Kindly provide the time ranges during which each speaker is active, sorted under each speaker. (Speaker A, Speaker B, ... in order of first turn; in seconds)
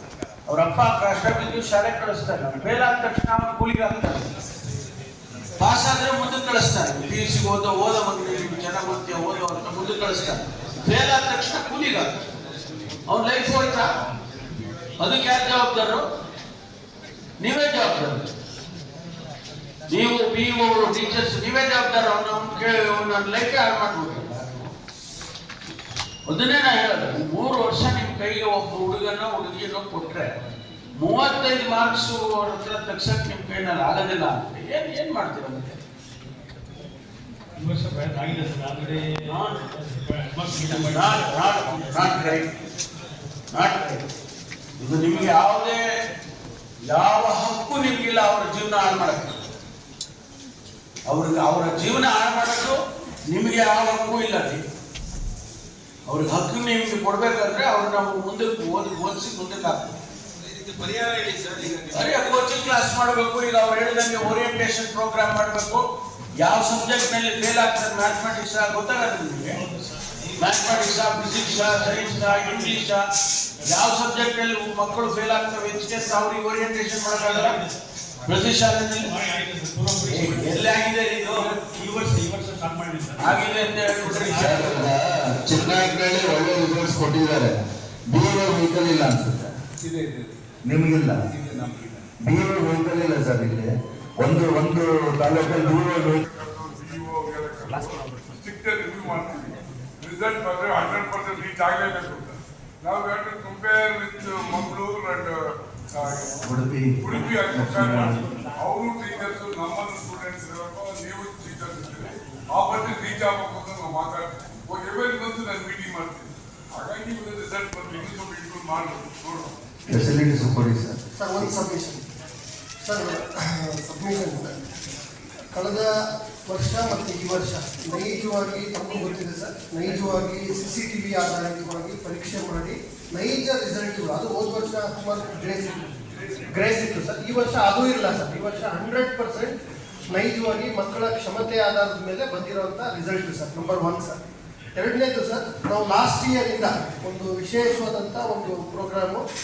Speaker A: 0.5-4.2, 5.6-12.1, 13.1-13.9, 15.0-16.0, 17.4-18.3, 19.9-24.7, 26.3-30.3, 31.0-35.8, 39.2-39.6, 40.7-42.5, 43.5-44.0, 44.8-45.8, 46.9-49.4, 51.1-54.6, 56.1-59.9, 61.9-65.8, 66.4-69.6, 70.4-73.0, 73.6-77.6, 78.3-79.1, 80.1-81.5, 83.2-84.9
Speaker B: 37.6-42.0, 71.6-72.6, 77.4-77.7, 79.1-80.7, 81.5-83.4, 84.1-84.8
Speaker C: 60.7-61.8, 89.8-90.3, 91.3-92.0
Speaker D: 84.3-87.6, 88.1-89.5, 90.7-91.2, 92.2-96.2, 106.5-108.2, 119.9-121.0
Speaker E: 96.2-105.3, 106.0-106.3, 107.0-119.5
Speaker F: 121.2-122.0, 122.8-124.5, 125.5-125.9, 126.5-135.8, 136.5-139.6, 140.1-144.2, 144.8-149.2